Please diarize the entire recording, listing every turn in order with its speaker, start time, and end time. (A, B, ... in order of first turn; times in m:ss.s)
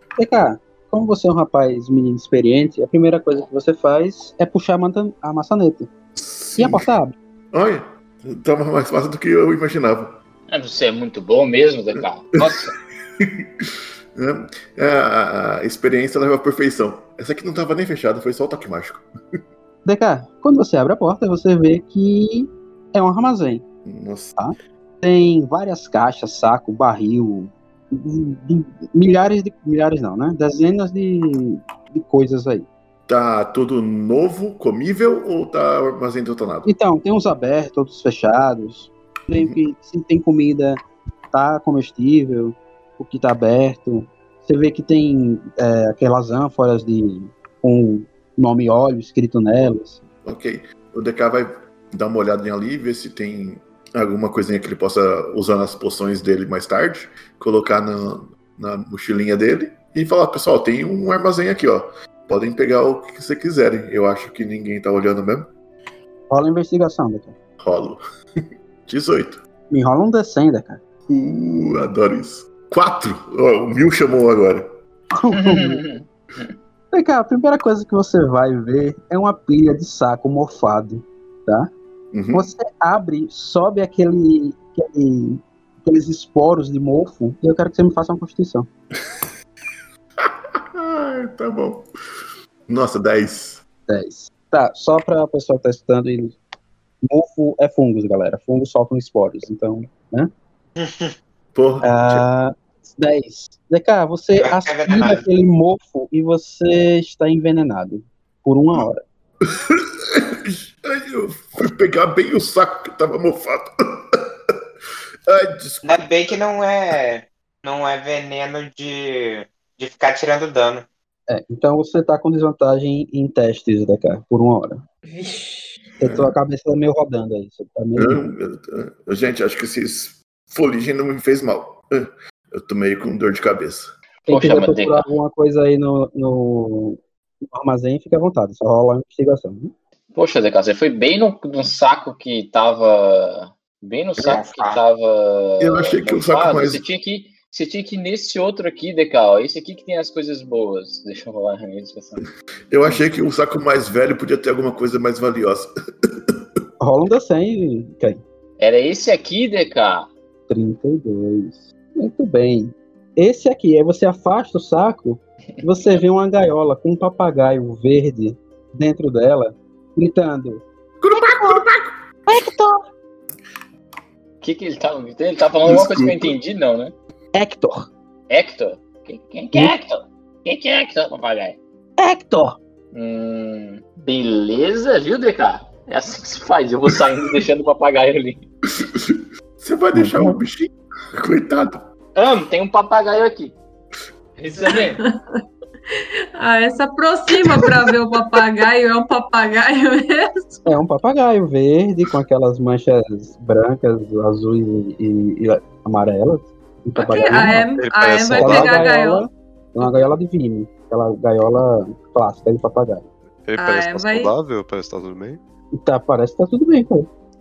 0:00.2-0:05.9 A
0:06.2-0:06.9 B
0:06.6-0:07.2 A
0:07.5-0:10.2 B
0:10.5-0:12.7 C
0:12.0-0:12.6 B
0:13.2-0:19.1 B
0:19.8-0:23.6 A
0:23.8-0:24.4 B
0:24.4-0:32.7 A
0:33.1-0:36.7 B
0:36.6-0:50.0 A
0:50.2-1:05.5 B
1:06.3-1:07.3 A
1:07.6-1:09.4 B
1:09.7-1:10.8 A
1:11.1-1:14.7 B
1:15.1-1:15.8 A
1:15.3-1:16.5 C
1:16.9-1:21.7 A
1:22.1-1:22.5 B
1:22.3-1:28.7 A
1:30.2-1:31.8 B
1:32.7-1:33.6 B
1:33.9-1:36.4 A
1:37.0-1:40.3 A
1:40.8-1:41.1 D
1:41.5-1:42.2 B
1:41.8-1:49.0 A
1:44.4-1:45.2 D
1:49.4-1:54.6 B
1:55.3-1:56.1 B
1:55.8-2:00.8 D
2:01.3-2:04.8 A
2:05.0-2:05.8 E
2:06.0-2:08.2 A
2:06.0-2:06.3 B
2:08.0-2:13.9 B
2:14.3-2:15.1 C
2:14.3-2:19.7 A
2:20.1-2:32.2 C
2:24.2-2:24.8 D
2:25.6-2:26.8 B
2:32.7-2:35.7 B
2:36.8-2:38.2 A
2:38.6-2:40.1 C
2:40.5-2:51.6 A
2:51.0-2:52.0 B
2:52.3-2:52.8 A
2:54.4-2:56.9 C
2:55.6-2:56.4 B
2:57.3-2:57.9 A
2:58.3-3:01.6 C
3:02.0-3:02.6 A
3:02.9-3:08.4 C
3:08.8-3:11.9 B
3:09.9-3:10.4 A
3:12.1-3:13.6 C
3:14.4-3:15.0 C
3:14.6-3:15.4 E
3:15.9-3:20.6 E
3:20.6-3:27.6 A
3:27.0-3:29.3 E
3:27.3-3:28.8 F
3:28.3-3:33.1 A
3:29.8-3:30.2 E
3:33.4-3:35.4 F
3:33.6-3:34.3 E
3:35.7-3:37.1 A